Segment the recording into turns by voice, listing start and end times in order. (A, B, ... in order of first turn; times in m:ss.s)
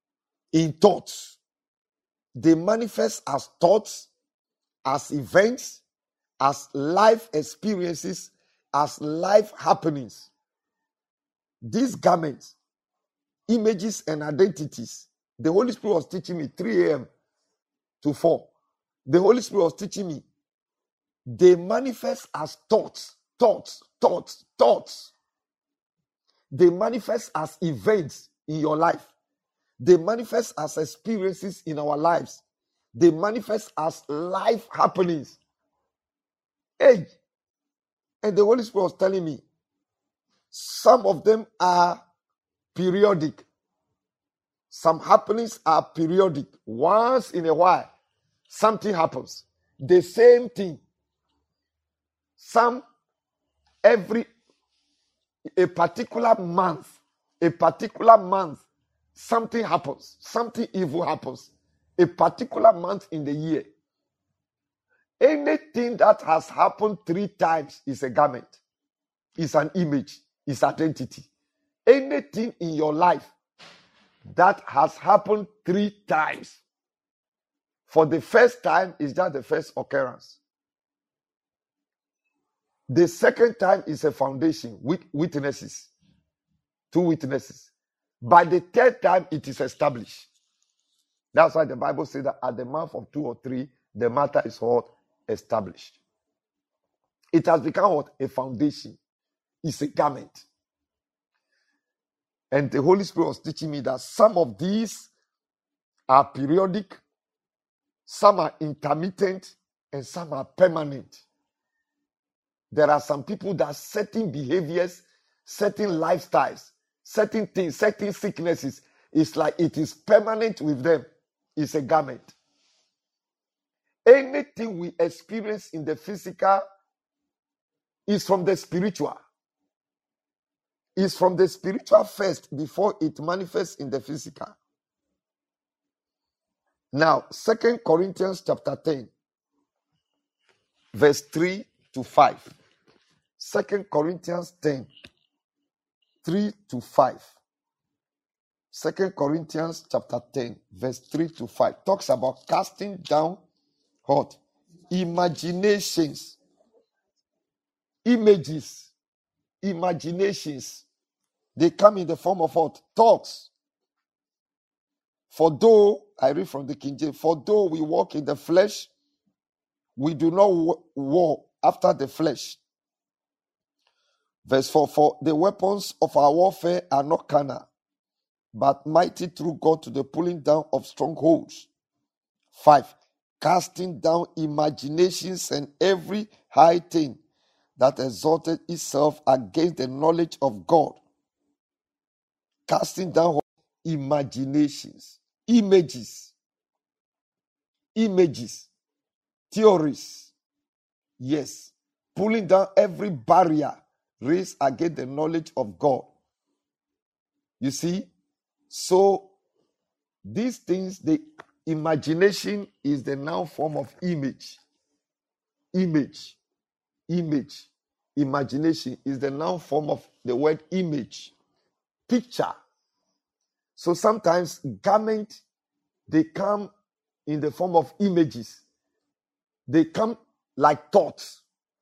0:00.5-0:01.4 A
0:02.4-0:04.1 A
0:04.8-0:05.8 A
0:06.4-0:10.3 A
0:11.6-0:12.6 A
0:13.5-0:17.1 A
0:18.0-0:18.5 A
0:19.1-0:20.2 A
0:21.3-0:25.1 A
0:26.5-0:29.1 A
0:29.8-0:32.4 A
0:33.0-0:35.4 A
0:36.8-0:37.1 A
0:38.2-0:39.4 A
0:40.5-0:42.0 A
0:42.7-0:43.4 A
0:44.7-0:47.9 A
0:48.5-0:50.8 A
0:52.4-0:52.8 A
0:53.8-0:54.3 A
0:55.6-0:58.6 A
0:59.2-1:03.7 A
1:05.2-1:08.6 A
1:09.4-1:11.3 A
1:11.9-1:13.3 A
1:14.3-1:16.6 A
1:17.9-1:20.4 A
1:22.9-1:25.9 A
1:26.9-1:27.7 A
1:28.2-1:30.3 A
1:31.3-1:36.0 A
1:37.3-1:39.0 A
1:39.6-1:40.4 A
1:42.5-1:45.1 A
1:46.1-1:47.0 A
1:48.1-1:51.2 A
1:52.7-2:02.3 A
2:04.0-2:06.6 A
2:08.1-2:09.2 A
2:11.0-2:14.6 A
2:16.9-2:19.1 A
2:20.9-2:22.5 A
2:23.4-2:24.9 A
2:26.2-2:27.3 A
2:28.7-2:33.4 A
2:34.1-2:34.4 A
2:34.9-2:36.4 A
2:38.0-2:38.9 A
2:39.6-2:40.8 A
2:41.6-2:43.5 A
2:45.3-2:48.9 A
2:50.0-2:52.6 A
2:54.5-2:57.7 A
2:58.5-3:01.7 A
3:02.5-3:07.2 A
3:07.8-3:11.0 A
3:12.7-3:16.3 A
3:18.0-3:18.7 A
3:19.5-3:20.3 A
3:21.2-3:26.1 A
3:27.6-3:28.1 A
3:28.7-3:29.3 A
3:30.2-3:34.6 A
3:35.7-3:36.4 A
3:37.1-3:41.3 A
3:42.1-3:42.5 A
3:43.8-3:45.4 A
3:46.1-3:46.7 A
3:47.3-3:48.6 A
3:49.7-3:51.4 A